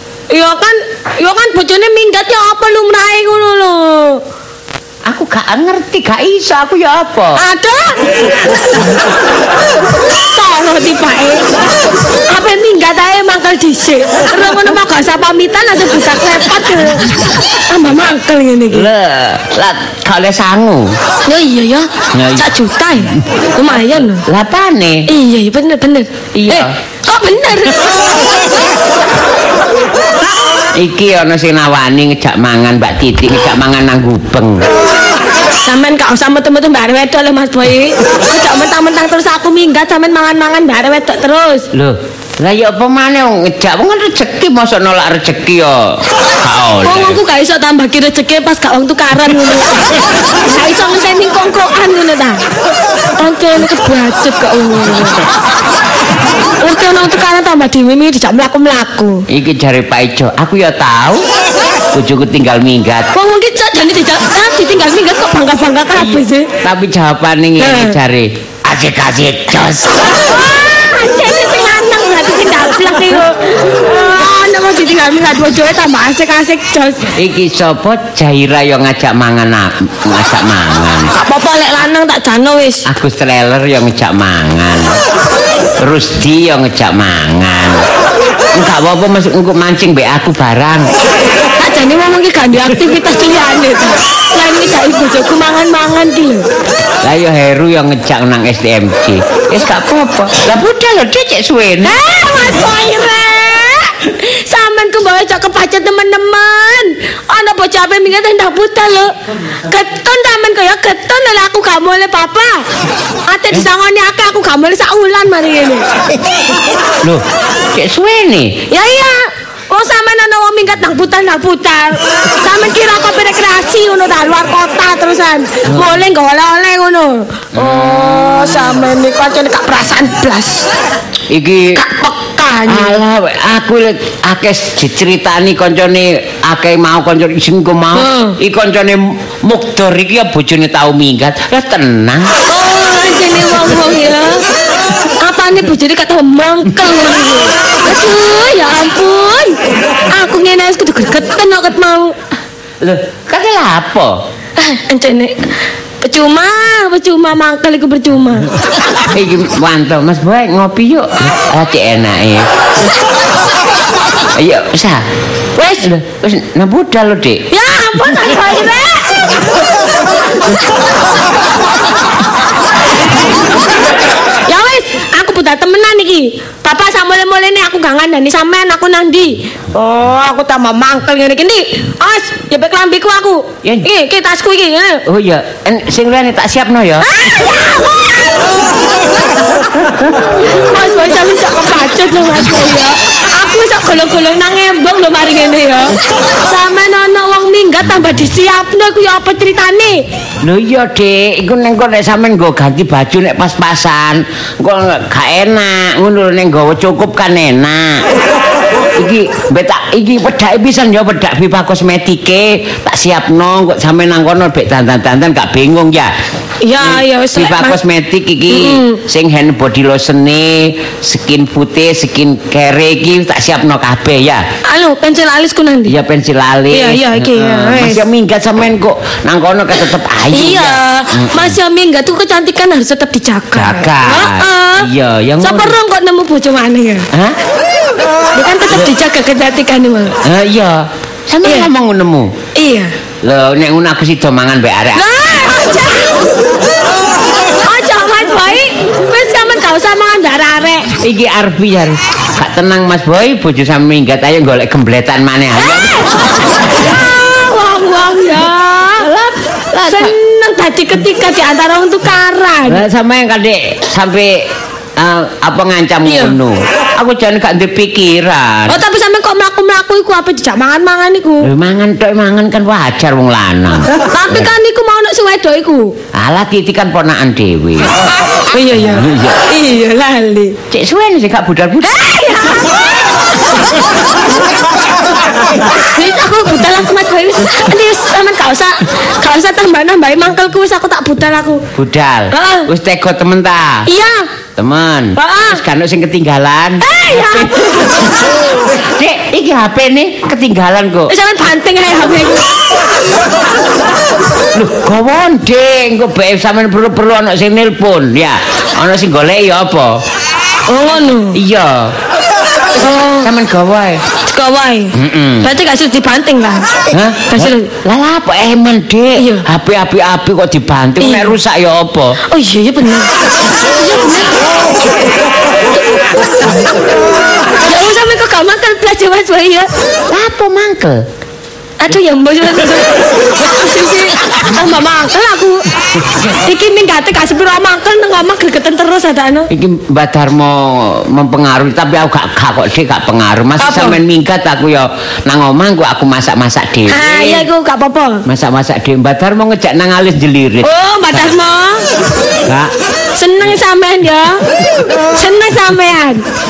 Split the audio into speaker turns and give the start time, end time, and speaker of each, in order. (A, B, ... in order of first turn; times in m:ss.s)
0:00.3-0:04.2 A
0:05.1-0:07.4 B
0:07.4-0:08.0 A
0:10.3-0:11.4 A
0:12.3-0:18.9 A
0:18.7-0:21.0 B
0:21.3-0:24.2 A
0:22.1-0:22.5 B
0:24.3-0:25.1 B
0:25.1-0:27.9 A
0:26.3-0:26.8 B
0:30.7-0:34.7 B
0:35.6-0:41.7 A
0:41.7-0:47.2 B
0:46.8-0:52.4 A
0:53.2-0:55.2 A
0:56.6-0:59.2 A
0:59.3-1:01.3 B
1:01.9-1:03.1 B
1:03.1-1:06.5 A
1:06.0-1:10.2 B
1:07.6-1:08.0 A
1:10.2-1:17.1 A
1:17.2-1:21.1 B
1:21.1-1:22.9 A
1:22.9-1:25.0 B
1:25.8-1:27.9 B
1:28.5-1:30.9 B
1:31.6-1:36.5 A
1:37.0-1:42.0 B
1:41.8-1:49.1 A
1:49.7-1:52.7 A
1:53.3-1:55.9 A
1:57.0-1:58.6 B
1:58.7-2:10.7 A
2:07.6-2:08.4 B
2:11.3-2:11.8 B
2:11.8-2:13.0 A
2:12.7-2:22.3 B
2:18.0-2:18.4 A
2:22.5-2:24.4 A
2:25.2-2:29.6 A
2:30.1-2:32.2 A
2:32.8-2:34.2 B
2:34.6-2:35.5 A
2:36.0-2:38.5 A
2:39.1-2:42.5 B
2:44.4-2:45.1 B
2:45.6-2:45.8 A
2:45.7-2:47.5 B
2:47.5-2:49.1 A
2:54.5-3:05.0 A
3:05.1-3:07.2 B
3:07.0-3:08.4 A
3:10.4-3:20.0 A
3:20.4-3:28.1 B
3:29.0-3:36.1 B
3:36.6-3:37.8 A
3:36.8-3:44.5 B
3:38.5-3:39.0 A
3:44.7-3:46.0 A
3:45.9-3:51.6 B
3:46.7-3:48.0 A
3:50.3-3:54.9 A
3:53.6-3:55.8 B
3:55.4-3:57.1 A
3:58.4-4:00.2 A
4:00.2-4:02.3 B
4:02.6-4:02.9 A
4:03.2-4:05.1 B
4:05.0-4:06.1 A
4:07.6-4:10.9 A
4:11.0-4:16.5 B
4:16.8-4:19.1 A
4:19.0-4:20.1 B
4:19.9-4:22.8 A
4:22.7-4:24.5 B
4:25.0-4:28.8 B
4:26.1-4:26.4 A
4:28.7-4:31.5 A
4:31.4-4:34.5 B
4:34.1-4:36.0 A
4:36.1-4:37.9 B
4:38.5-4:40.6 A
4:38.9-4:39.4 B
4:40.7-4:42.1 B
4:41.8-4:43.0 A
4:45.9-4:51.6 A
4:51.8-4:53.9 B
4:52.3-4:52.7 A
4:53.9-4:54.3 A
4:54.6-5:01.1 B
4:55.2-4:55.6 A
4:56.8-4:57.7 A
5:01.1-5:02.4 A
5:04.6-5:10.0 B
5:10.7-5:11.4 A
5:11.4-5:12.0 B
5:12.8-5:13.3 A
5:13.2-5:14.0 B
5:14.3-5:16.7 A
5:14.9-5:15.5 B
5:16.9-5:22.2 B
5:17.3-5:17.7 A
5:19.2-5:19.4 A
5:21.0-5:21.4 A
5:22.3-5:23.1 A
5:23.8-5:24.3 A
5:27.6-5:29.7 A
5:30.1-5:31.0 B
5:31.8-5:35.6 A
5:36.4-5:39.5 A
5:39.5-5:47.4 B
5:43.6-5:44.0 A
5:46.9-5:48.2 A
5:48.3-5:51.3 B
5:50.6-5:51.8 A
5:52.5-5:52.7 B
5:53.2-5:54.4 A
5:55.1-5:56.2 A